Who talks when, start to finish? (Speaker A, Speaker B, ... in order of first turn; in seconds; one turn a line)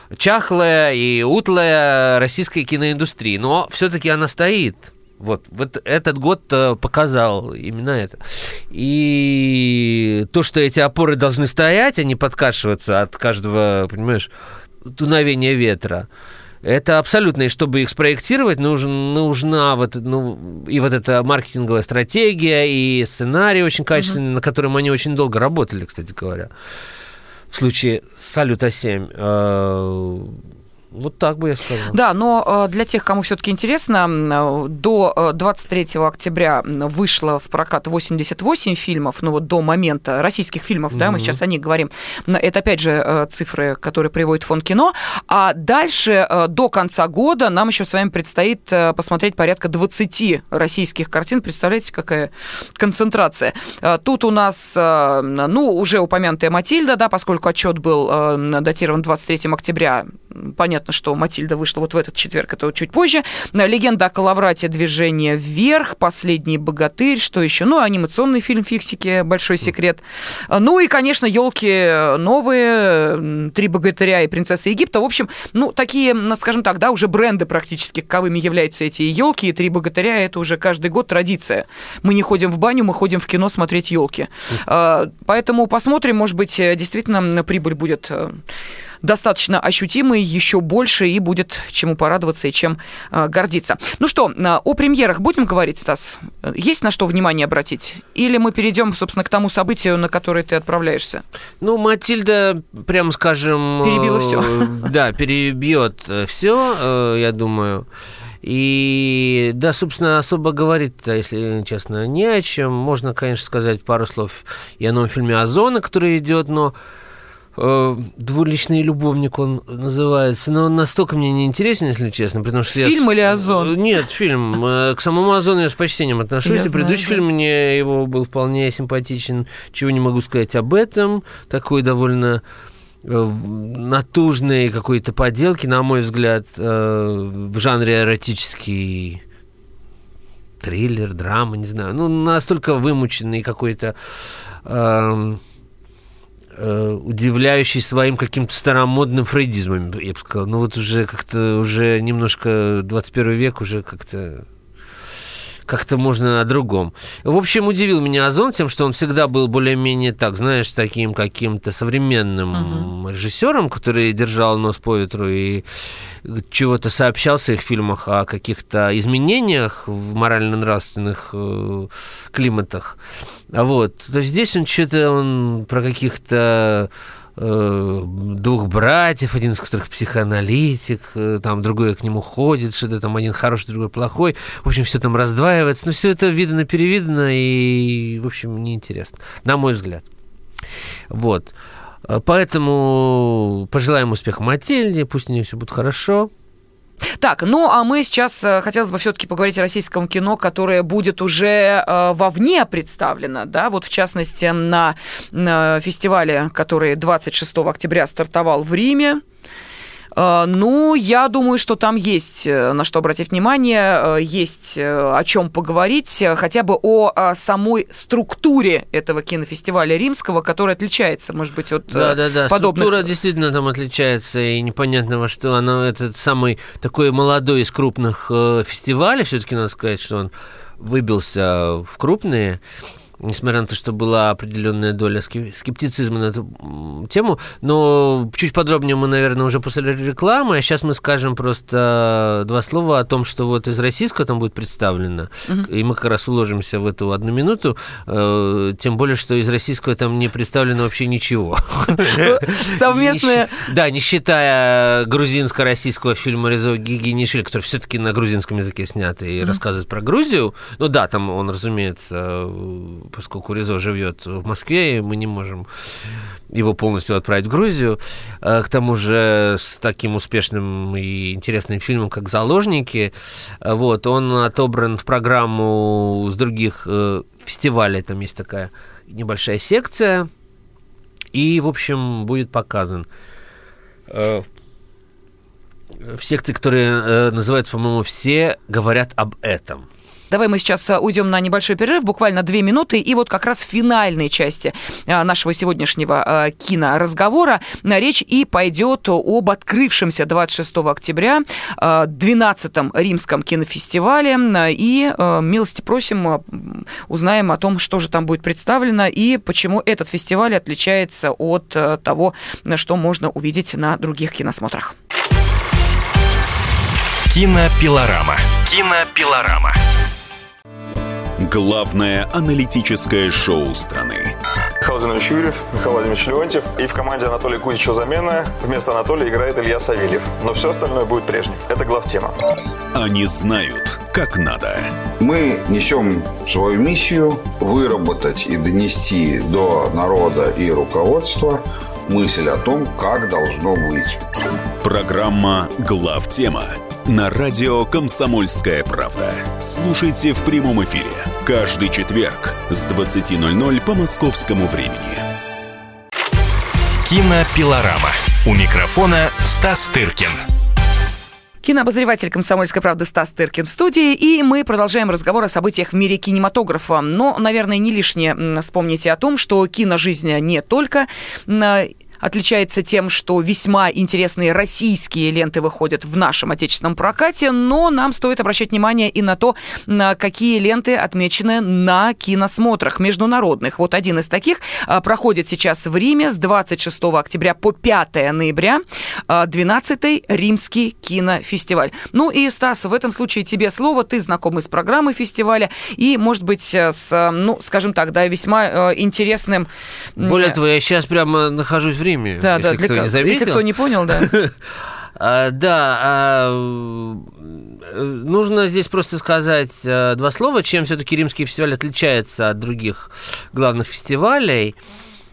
Speaker A: 0.1-8.2
Speaker A: 8.7-14.3
Speaker A: 14.8-16.1
Speaker A: 16.6-26.5
Speaker A: 27.5-30.4
Speaker A: 30.9-31.9
Speaker B: 31.9-88.4
Speaker A: 40.9-41.4
Speaker B: 89.0-101.2
Speaker A: 101.6-107.8
Speaker B: 103.8-104.8
Speaker A: 108.4-116.7
Speaker A: 117.5-132.4
Speaker B: 122.7-123.7
Speaker B: 126.4-127.2
Speaker A: 133.0-139.2
Speaker A: 140.6-143.9
Speaker A: 144.6-145.4
Speaker A: 146.6-154.4
Speaker A: 155.7-165.6
Speaker B: 162.5-162.9
Speaker A: 166.2-173.0
Speaker A: 173.5-190.0
Speaker A: 191.1-191.5
Speaker A: 192.1-196.3
Speaker B: 197.2-209.2
Speaker B: 210.2-223.1
Speaker A: 221.9-232.6
Speaker A: 233.2-265.7
Speaker B: 252.1-253.7
Speaker A: 266.5-280.3
Speaker A: 281.3-283.1
Speaker A: 284.1-284.4
Speaker A: 286.0-289.9
Speaker B: 290.3-314.9
Speaker C: 317.3-319.8
Speaker D: 321.4-324.4
Speaker E: 324.8-332.4
Speaker D: 332.9-334.9
Speaker F: 335.2-344.2
Speaker D: 344.8-355.2
Speaker C: 357.0-360.4
Speaker B: 361.6-400.6
Speaker A: 400.2-404.5
Speaker B: 402.4-404.3
Speaker A: 405.2-414.7